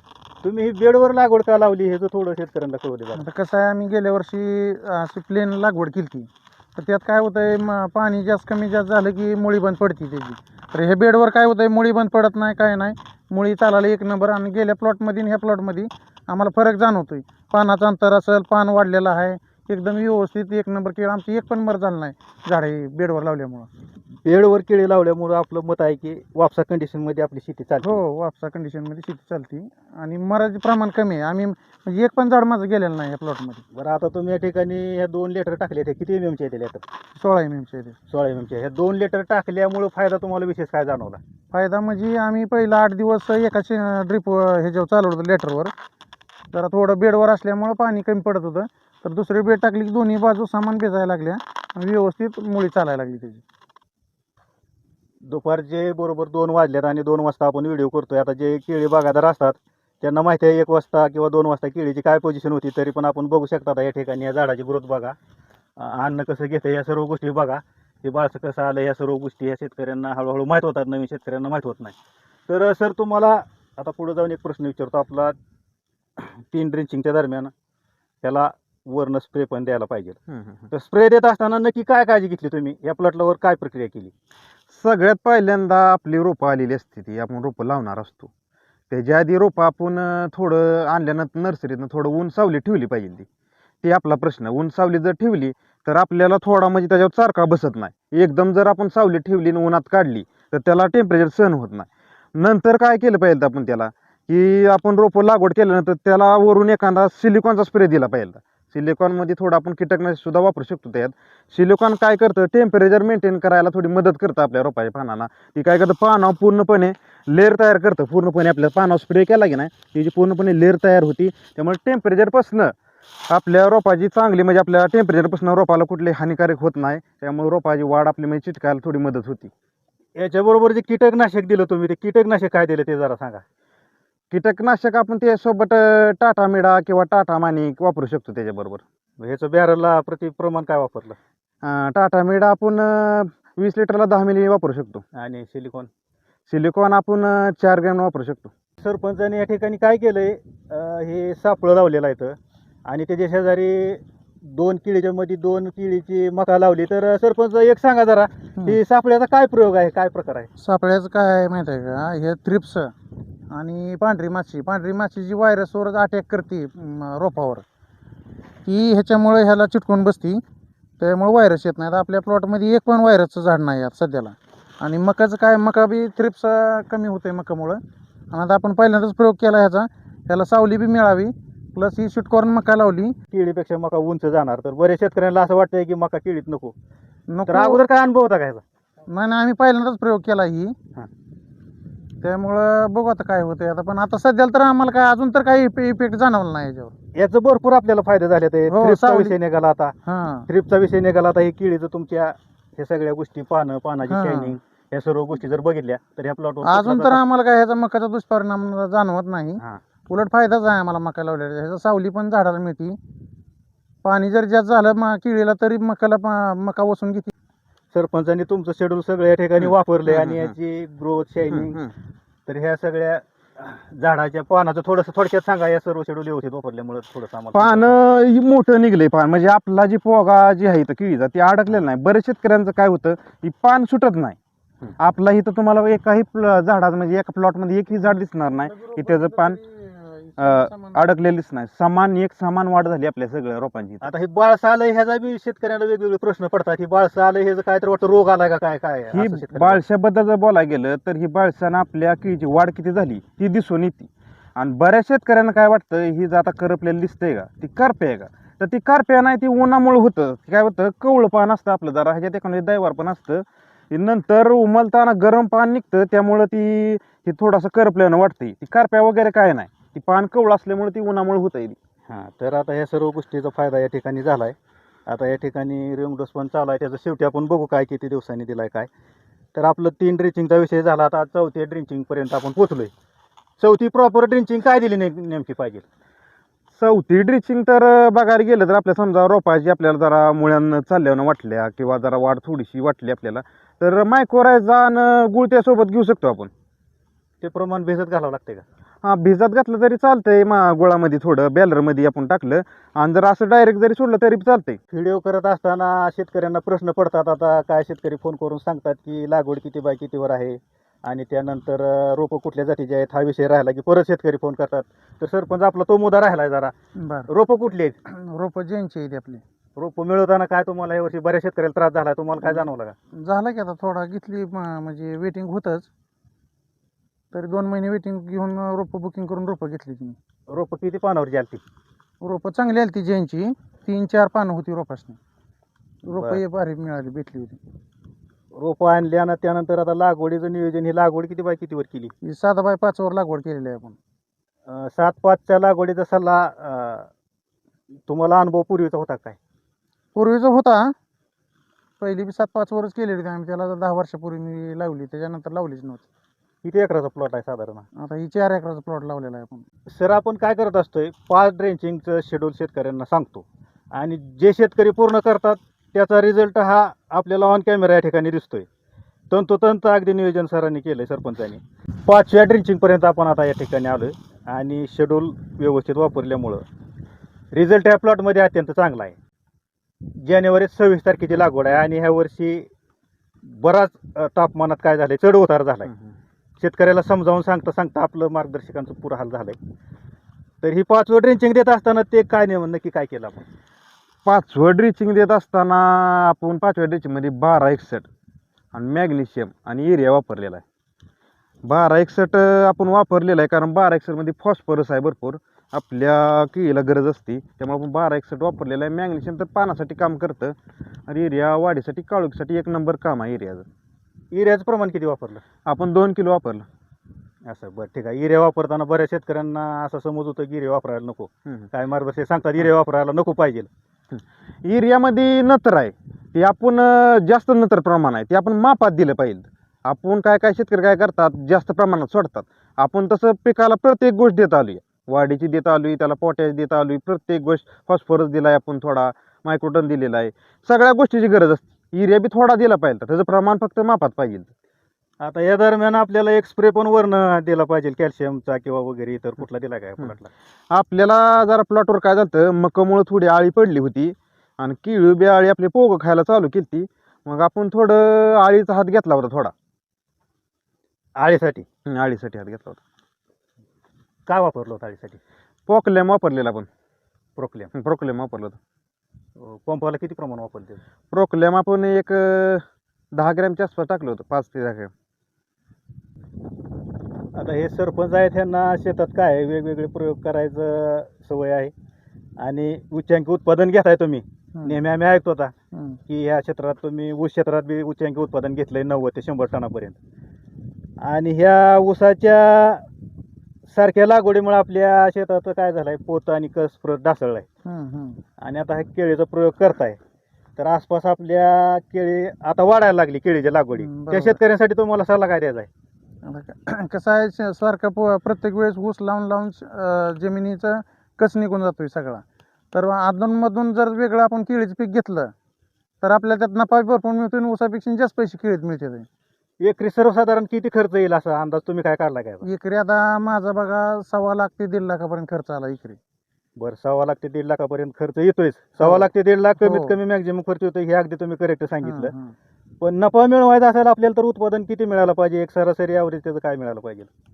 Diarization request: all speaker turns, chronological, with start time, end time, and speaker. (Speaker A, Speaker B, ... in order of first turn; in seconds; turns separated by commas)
Speaker A: 0.4-3.2, Speaker B: 3.2-23.7, Speaker A: 24.2-28.0, Speaker B: 27.8-33.6, Speaker A: 33.7-36.8, Speaker B: 37.1-38.0, Speaker A: 38.1-41.2, Speaker B: 41.5-45.7, Speaker B: 46.5-53.4, Speaker A: 55.2-65.2, Speaker A: 65.8-72.0, Speaker A: 72.5-75.3, Speaker A: 76.2-77.5, Speaker A: 78.2-80.2, Speaker C: 80.3-80.6, Speaker A: 80.7-84.1, Speaker C: 84.7-88.3, Speaker C: 88.9-93.2, Speaker C: 93.8-122.7, Speaker C: 123.3-129.5, Speaker A: 130.2-133.4, Speaker C: 134.3-138.8, Speaker A: 139.2-141.2, Speaker C: 141.6-145.0, Speaker A: 145.1-145.9, Speaker C: 146.5-148.5, Speaker A: 148.8-160.5, Speaker B: 160.6-162.9, Speaker B: 163.5-167.6, Speaker B: 168.6-170.4, Speaker B: 171.0-177.8, Speaker B: 178.3-183.2, Speaker A: 183.3-186.7, Speaker B: 187.3-187.8, Speaker A: 187.4-188.6, Speaker B: 189.1-190.8, Speaker B: 192.2-196.9, Speaker A: 197.1-199.9, Speaker B: 198.7-199.4, Speaker B: 200.1-200.5, Speaker A: 200.5-207.2, Speaker B: 204.1-204.5, Speaker B: 206.6-213.0, Speaker B: 214.0-217.3, Speaker A: 217.9-221.8, Speaker C: 220.1-220.5, Speaker C: 221.5-221.9, Speaker A: 222.5-227.9, Speaker C: 227.5-234.4, Speaker C: 235.0-239.6, Speaker B: 238.7-241.0, Speaker C: 240.4-244.0, Speaker A: 244.0-249.8, Speaker C: 249.1-271.8, Speaker A: 272.1-274.5, Speaker A: 275.1-278.9, Speaker A: 279.5-282.9, Speaker A: 283.6-285.8, Speaker C: 286.7-296.5, Speaker A: 297.4-298.6, Speaker C: 299.0-304.8, Speaker A: 304.9-316.7, Speaker B: 316.9-317.3, Speaker A: 317.3-318.0, Speaker B: 318.1-319.4, Speaker A: 319.8-322.9, Speaker B: 322.4-325.9, Speaker B: 327.3-330.2, Speaker A: 330.5-331.6, Speaker B: 332.2-335.2, Speaker B: 336.0-337.6, Speaker A: 336.1-336.4, Speaker A: 338.5-342.1, Speaker B: 342.2-343.9, Speaker A: 344.6-347.1, Speaker A: 348.1-349.4, Speaker B: 350.1-350.9, Speaker B: 352.0-356.0, Speaker A: 356.6-357.8, Speaker B: 358.0-359.6, Speaker A: 359.9-368.7, Speaker A: 369.3-376.6, Speaker A: 377.5-379.1, Speaker A: 380.1-382.7, Speaker A: 383.4-385.9, Speaker A: 386.6-389.6, Speaker A: 390.6-393.5, Speaker C: 394.2-398.1, Speaker C: 398.7-400.6, Speaker C: 401.6-410.6, Speaker C: 411.1-413.6, Speaker A: 414.3-415.4, Speaker C: 415.6-416.6, Speaker A: 417.4-423.7, Speaker C: 424.1-444.5, Speaker A: 445.2-450.3, Speaker C: 450.7-459.5, Speaker A: 461.2-461.6, Speaker C: 461.9-462.8, Speaker A: 464.3-465.2, Speaker C: 465.7-466.7, Speaker A: 467.4-467.7, Speaker C: 467.7-468.6, Speaker A: 469.4-470.8, Speaker C: 471.1-474.9, Speaker A: 477.3-481.7, Speaker A: 482.4-485.5, Speaker B: 484.5-484.8, Speaker B: 485.7-486.0, Speaker A: 486.1-490.0, Speaker A: 491.0-492.9, Speaker A: 493.7-497.4, Speaker B: 497.6-498.2, Speaker A: 498.4-500.0, Speaker A: 500.6-505.7, Speaker B: 503.8-504.4, Speaker B: 506.2-515.3, Speaker B: 516.0-519.1, Speaker A: 519.6-522.5, Speaker B: 522.4-526.0, Speaker A: 526.6-532.1, Speaker B: 528.8-529.1, Speaker B: 529.6-530.0, Speaker B: 531.8-532.3, Speaker A: 532.8-537.1